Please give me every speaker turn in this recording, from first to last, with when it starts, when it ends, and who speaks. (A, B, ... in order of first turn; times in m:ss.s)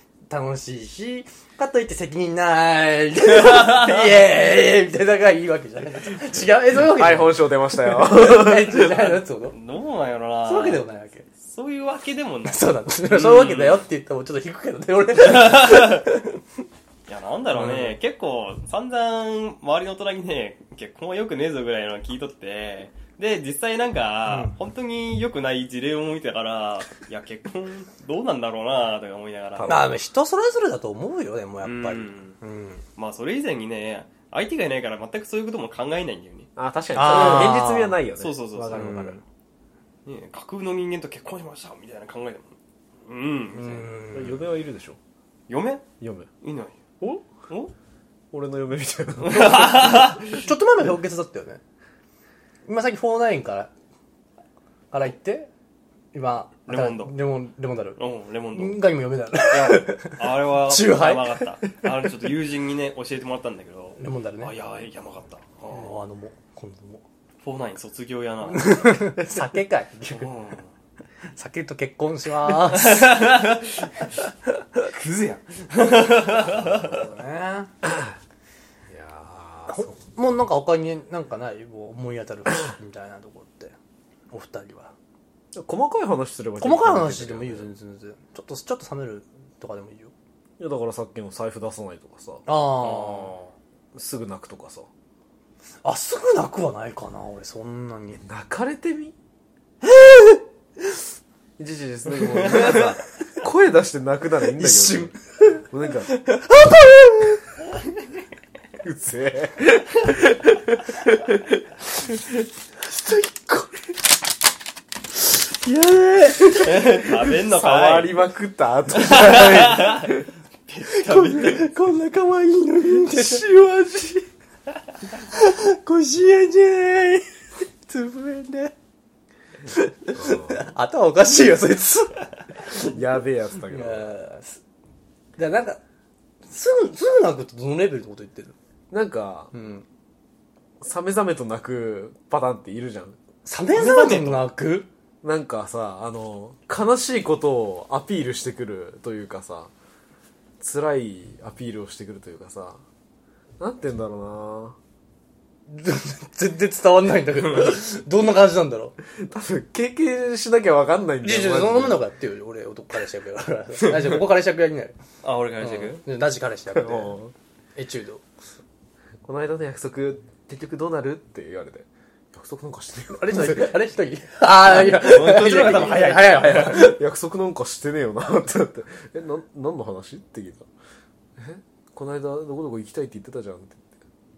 0:00.3-0:09.6 A
0:03.5-0:04.0 B
0:06.8-0:08.9 C
0:08.7-0:10.8 B
0:10.4-0:11.3 A
0:11.4-0:13.8 B
0:12.5-0:16.4 A
0:15.2-0:16.1 B
0:17.1-0:29.8 B
0:29.6-0:29.9 C
0:29.6-0:32.8 A
0:31.6-0:32.4 B
0:33.0-0:36.5 B
0:36.6-0:39.2 C
0:37.0-0:38.0 A
0:37.1-0:37.6 B
0:38.2-0:39.2 B
0:38.7-0:39.2 A
0:40.1-0:44.0 B
0:43.5-0:44.4 A
0:44.1-0:45.0 C
0:45.5-0:45.8 B
0:46.0-0:46.3 C
0:46.4-0:46.8 B
0:47.0-0:47.3 C
0:48.3-0:50.4 C
0:49.2-0:50.2 B
0:49.4-0:51.6 A
0:52.6-0:53.7 A
0:54.9-0:55.5 A
0:56.1-0:58.0 A
0:56.7-0:57.2 B
0:58.0-0:58.8 B
0:58.5-1:01.4 A
0:59.5-1:05.9 B
1:04.0-1:04.5 A
1:05.7-1:07.0 A
1:07.4-1:09.1 B
1:08.5-1:10.3 A
1:10.1-1:10.7 B
1:11.3-1:13.2 A
1:12.7-1:14.1 B
1:14.8-1:17.0 B
1:16.3-1:17.7 A
1:17.8-1:18.1 C
1:18.9-1:19.9 C
1:19.7-1:23.8 A
1:24.3-1:24.9 A
1:25.5-1:27.7 C
1:26.6-1:30.1 A
1:30.6-1:32.4 C
1:32.5-1:33.4 A
1:32.9-1:33.5 B
1:33.9-1:34.9 C
1:35.8-1:38.2 A
1:38.2-1:39.2 C
1:39.8-1:40.4 A
1:41.6-1:46.1 C
1:42.6-1:42.9 B
1:44.6-1:45.6 A
1:46.3-1:47.4 A
1:48.8-1:51.6 C
1:52.8-1:53.8 A
1:55.5-1:56.7 A
1:56.6-1:58.2 B
1:57.3-2:00.3 C
1:59.0-2:00.1 B
2:00.7-2:01.7 B
2:00.8-2:03.5 A
2:02.9-2:04.3 C
2:05.2-2:07.3 A
2:07.8-2:08.7 A
2:09.7-2:13.0 A
2:10.2-2:10.6 C
2:12.8-2:14.1 C
2:13.7-2:14.6 A
2:15.4-2:15.8 A
2:16.4-2:18.6 A
2:18.9-2:19.5 C
2:19.5-2:19.8 A
2:20.8-2:23.2 C
2:23.4-2:24.9 A
2:23.9-2:24.4 B
2:25.2-2:29.7 C
2:30.6-2:32.8 C
2:33.6-2:34.8 C
2:35.7-2:39.0 A
2:39.1-2:42.0 C
2:41.2-2:45.0 A
2:45.2-2:46.0 B
2:45.6-2:47.2 A
2:46.7-2:47.3 C
2:47.8-2:48.2 A
2:49.2-2:53.8 C
2:53.1-2:57.0 A
2:54.7-2:56.9 B
2:56.6-3:00.7 C
3:01.4-3:03.9 C